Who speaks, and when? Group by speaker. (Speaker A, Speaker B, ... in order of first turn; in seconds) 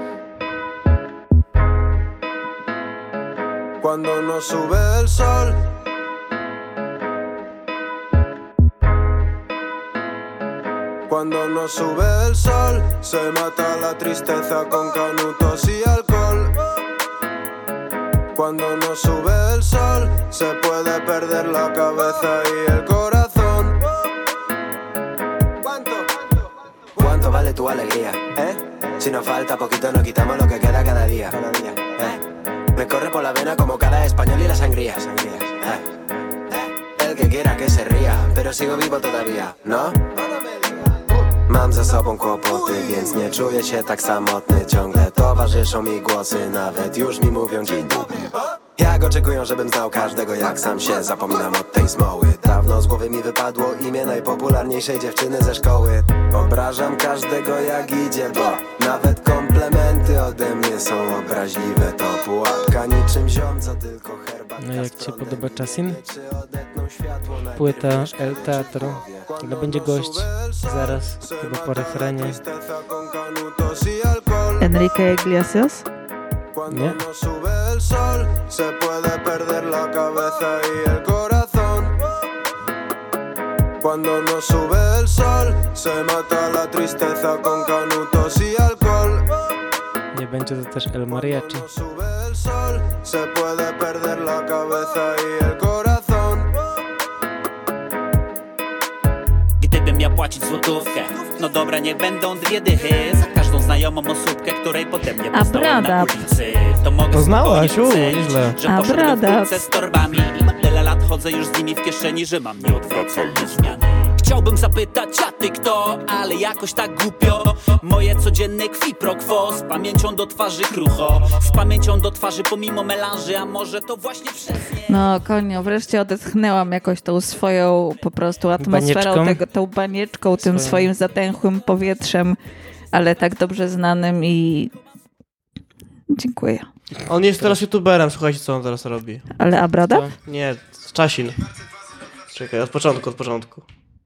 Speaker A: 3.8-5.6, 11.1-16.6, 18.4-23.8, 25.6-26.1, 69.3-74.7, 76.5-82.1, 83.8-89.5, 91.0-96.6
Speaker B: 27.0-32.2, 32.8-35.8, 37.0-40.0, 41.5-48.2, 48.8-69.3
Speaker C: 64.6-66.0, 67.5-72.4, 76.7-77.0, 90.1-91.7, 128.6-129.4, 130.4-130.9, 139.9-140.2
Speaker D: 74.6-75.9, 105.3-106.3, 108.7-109.7, 124.9-132.4, 132.9-134.7, 136.1-136.7, 139.4-140.1
Speaker E: 99.6-124.9
Speaker F: 107.1-108.6, 137.1-139.3, 140.2-141.4, 142.3-143.7